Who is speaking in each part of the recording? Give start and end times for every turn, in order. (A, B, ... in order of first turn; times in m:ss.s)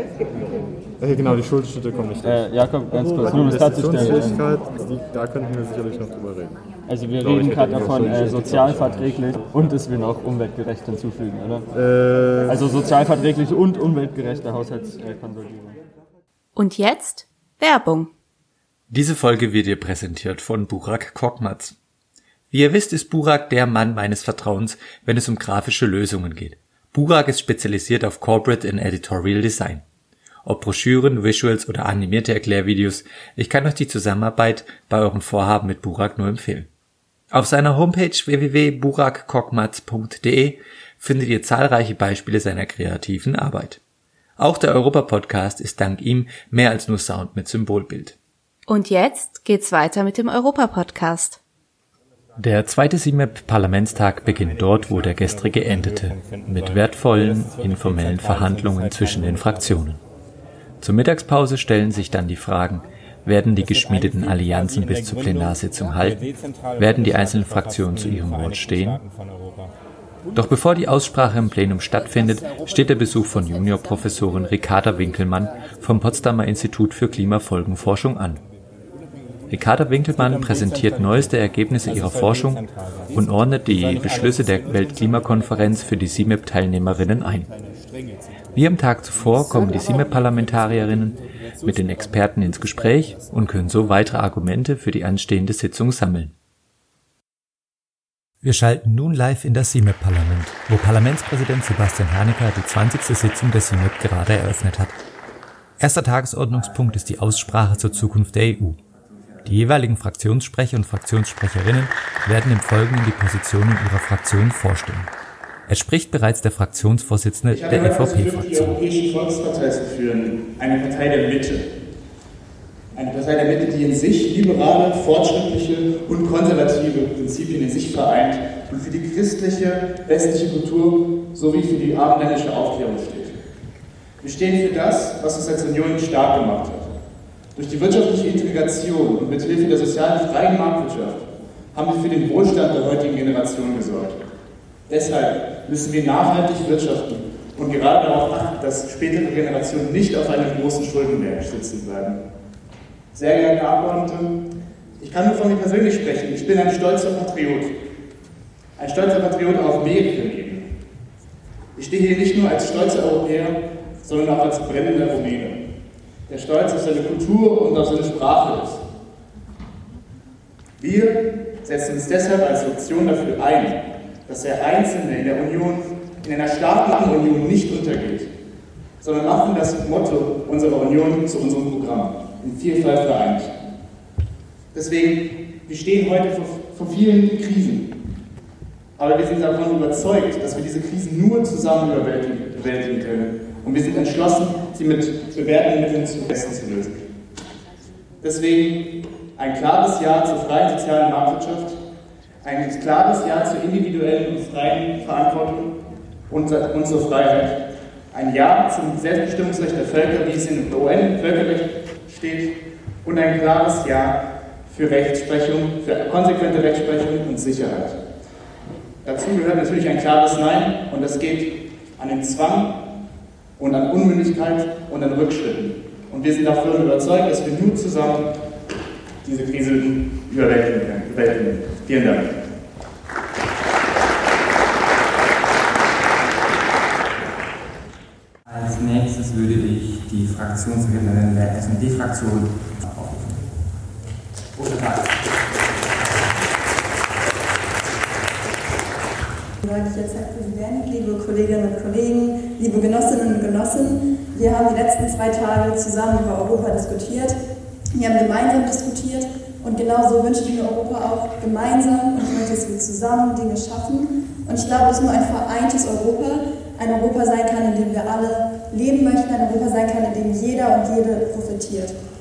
0:01.0-0:06.6 A
0:02.2-0:04.5 B
0:06.9-0:11.7 B
0:07.2-0:09.4 A
0:11.7-0:12.7 A
0:12.5-0:15.8 B
0:16.6-0:18.1 C
0:18.9-0:21.8 D
0:22.5-0:29.8 D
0:30.4-0:36.7 D
0:37.3-0:43.8 D
0:44.4-0:48.2 D
0:48.7-0:51.4 C
0:52.4-1:00.0 D
0:57.3-0:59.6 B
1:00.8-1:06.2 D
1:03.8-1:05.2 B
1:06.7-1:09.7 B
1:06.8-1:09.0 D
1:10.3-1:18.4 D
1:19.5-1:27.5 D
1:28.5-1:36.3 D
1:38.4-1:45.0 D
1:45.8-1:48.8 D
1:49.4-1:55.1 D
1:55.7-1:58.8 D
1:57.5-2:01.7 E
2:03.0-2:13.4 E
2:14.2-2:16.9 E
2:17.6-2:24.2 E
2:24.9-2:32.2 E
2:33.1-2:34.4 E
2:35.0-2:37.7 E
2:38.8-2:40.7 E
2:41.8-2:45.6 E
2:46.3-2:48.8 E
2:50.8-2:58.3 E
2:59.0-3:03.5 E
3:04.7-3:07.9 E
3:09.0-3:17.0 E
3:18.2-3:18.9 E
3:19.4-3:21.8 E
3:22.4-3:25.8 E
3:26.3-3:27.6 E
3:28.1-3:38.0 E
3:39.0-3:42.7 E
3:43.6-3:48.3 E
3:49.2-3:52.3 E
3:58.5-4:03.5 F
4:04.6-4:05.2 F
4:09.6-4:17.4 G
4:18.0-4:32.0 G